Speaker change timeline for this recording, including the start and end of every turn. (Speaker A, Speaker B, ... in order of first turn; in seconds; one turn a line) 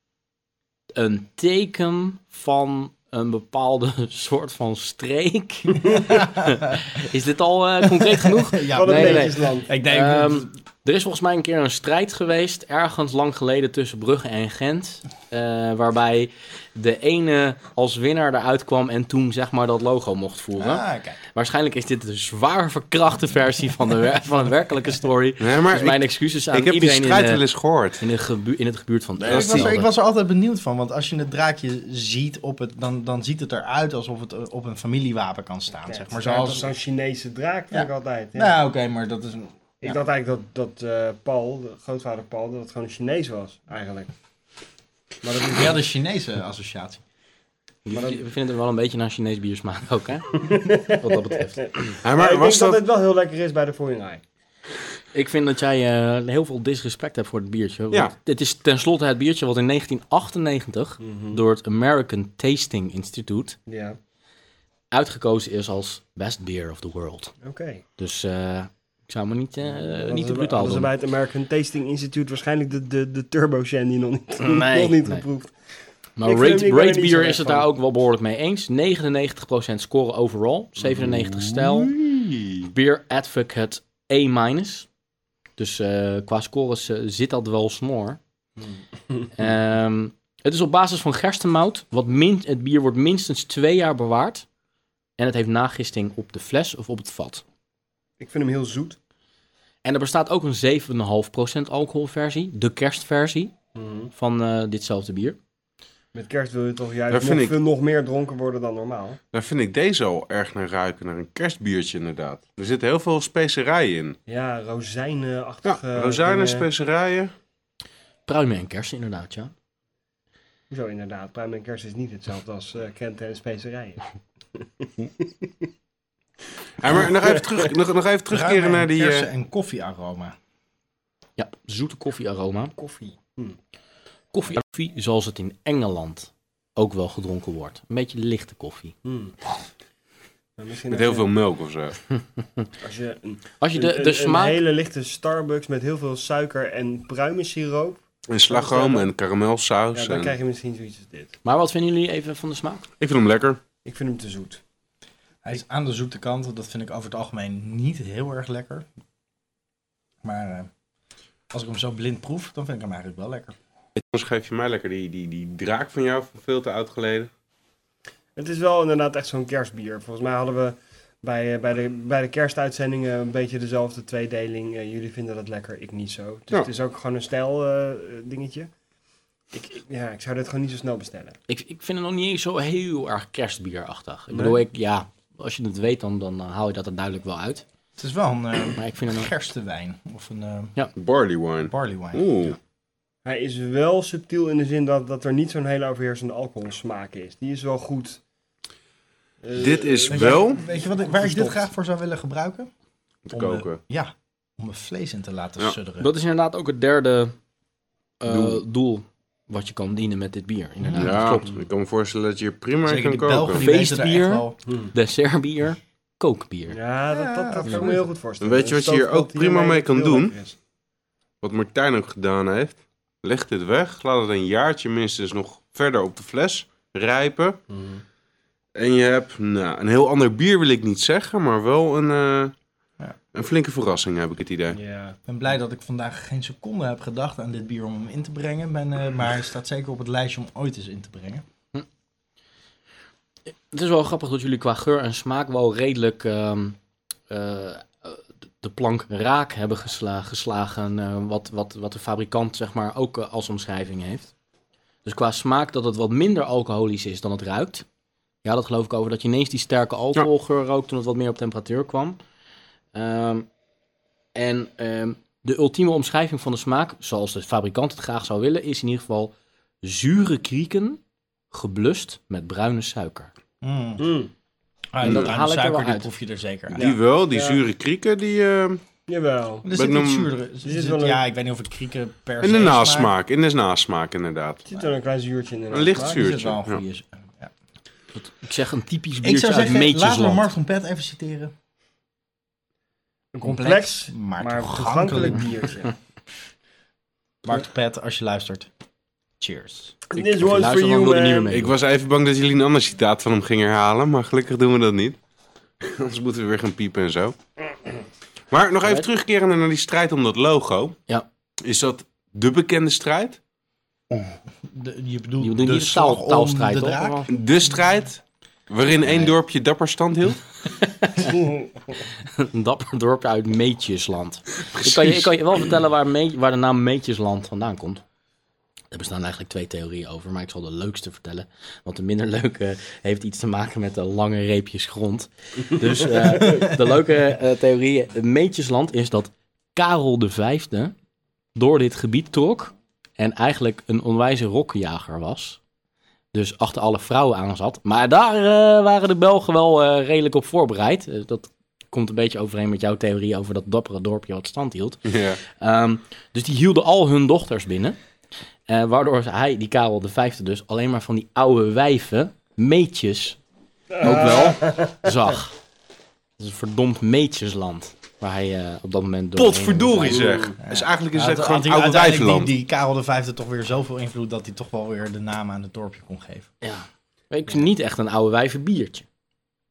Speaker A: 0.9-20.8
Speaker B: 5.9-6.9
Speaker B: 7.9-10.5
Speaker C: 8.7-9.7
Speaker B: 20.6-21.2
Speaker A: 21.3-27.4
Speaker D: 25.4-28.0
Speaker A: 28.0-29.9
Speaker B: 29.2-36.7
Speaker D: 29.2-29.7
Speaker C: 35.8-38.5
Speaker B: 37.7-40.0
Speaker C: 39.8-44.1
Speaker C: 45.2-45.8
Speaker B: 45.5-47.0
Speaker A: 47.8-51.7
Speaker C: 47.9-48.2
Speaker C: 50.4-54.2
Speaker D: 52.0-52.8
Speaker A: 55.1-63.6
Speaker C: 61.0-61.4
Speaker C: 63.7-64.0
Speaker A: 64.9-67.3
Speaker C: 67.4-67.8
Speaker A: 68.0-70.9
Speaker C: 69.7-75.5
Speaker A: 74.4-75.2
Speaker A: 76.2-81.9
Speaker C: 76.2-77.7
Speaker D: 81.1-82.5
Speaker A: 82.7-84.9
Speaker A: 85.6-88.2
Speaker A: 89.3-94.5
Speaker A: 95.2-97.4
Speaker C: 98.2-99.0
Speaker A: 99.8-103.5
Speaker C: 103.7-104.1
Speaker A: 104.1-105.4
Speaker C: 106.1-109.2
Speaker D: 107.1-107.5
Speaker D: 109.3-114.2
Speaker C: 114.3-116.7
Speaker D: 115.6-117.3
Speaker A: 118.3-119.5
Speaker C: 120.7-125.5
Speaker D: 126.8-129.3
Speaker B: 128.3-130.3
Speaker A: 131.4-132.7
Speaker C: 132.8-133.6
Speaker A: 134.3-138.9
Speaker C: 139.0-139.3
Speaker C: 140.6-141.3
Speaker D: 140.9-142.0
Speaker A: 142.2-142.6
Speaker C: 142.8-149.1
Speaker A: 143.6-144.6
Speaker D: 148.3-150.3
Speaker C: 149.9-151.3
Speaker A: 151.4-152.8
Speaker D: 153.0-153.6
Speaker C: 153.8-154.6
Speaker B: 155.4-158.8
Speaker B: 160.2-160.7
Speaker B: 161.5-163.5
Speaker D: 163.9-167.3
Speaker C: 168.3-178.7
Speaker C: 179.5-181.4
Speaker A: 181.5-187.6
Speaker C: 184.3-184.6
Speaker B: 188.0-190.7
Speaker A: 188.8-189.3
Speaker D: 190.9-192.6
Speaker B: 191.6-192.2
Speaker C: 193.2-198.2
Speaker C: 199.4-201.6
Speaker D: 199.5-200.6
Speaker B: 200.1-202.7
Speaker D: 203.3-203.8
Speaker B: 203.3-206.1
Speaker A: 206.0-207.3
Speaker A: 208.2-211.5
Speaker D: 208.3-208.6
Speaker B: 210.8-211.1
Speaker D: 210.9-213.6
Speaker B: 212.8-214.6
Speaker A: 213.6-216.8
Speaker C: 216.7-220.6
Speaker B: 217.1-218.1
Speaker D: 218.4-220.3
Speaker D: 221.4-227.6
Speaker C: 227.7-228.0
Speaker D: 228.7-232.5
Speaker D: 233.3-234.8
Speaker C: 234.7-235.2
Speaker B: 235.3-241.4
Speaker A: 243.7-246.8
Speaker A: 247.3-254.3
Speaker A: 255.0-257.9
Speaker A: 258.4-262.2
Speaker A: 262.9-263.5
Speaker A: 264.3-271.0
Speaker A: 271.5-273.3
Speaker B: 273.6-274.1
Speaker C: 274.0-274.3
Speaker B: 274.9-276.8
Speaker A: 275.0-276.1
Speaker D: 275.0-275.3
Speaker C: 276.7-277.6
Speaker D: 276.7-278.8
Speaker C: 279.1-279.7
Speaker B: 279.6-283.1
Speaker D: 279.7-280.3
Speaker C: 280.6-281.2
Speaker D: 282.4-284.6
Speaker C: 284.6-286.2
Speaker D: 285.7-286.8
Speaker B: 286.0-287.5
Speaker A: 288.1-290.5
Speaker B: 289.2-291.5
Speaker C: 293.3-295.9
Speaker B: 293.4-295.7
Speaker B: 297.4-298.7
Speaker B: 299.4-300.0
Speaker C: 300.1-301.5
Speaker A: 300.3-301.7
Speaker D: 301.5-305.2
Speaker D: 305.8-307.3
Speaker D: 308.5-311.0
Speaker D: 311.6-313.4
Speaker B: 314.6-317.7
Speaker A: 315.4-317.3
Speaker D: 317.3-320.4
Speaker A: 319.1-319.3
Speaker A: 321.0-321.3
Speaker C: 321.2-321.8
Speaker A: 322.2-328.0
Speaker D: 324.7-325.3
Speaker A: 328.9-340.9
Speaker C: 336.0-336.6
Speaker A: 341.5-345.6
Speaker A: 346.3-358.0
Speaker D: 355.0-355.4
Speaker A: 358.7-363.4
Speaker C: 363.9-365.1
Speaker A: 364.0-365.6
Speaker A: 366.4-370.2
Speaker D: 369.3-372.5
Speaker C: 370.0-370.6
Speaker B: 370.6-376.5
Speaker A: 376.6-379.0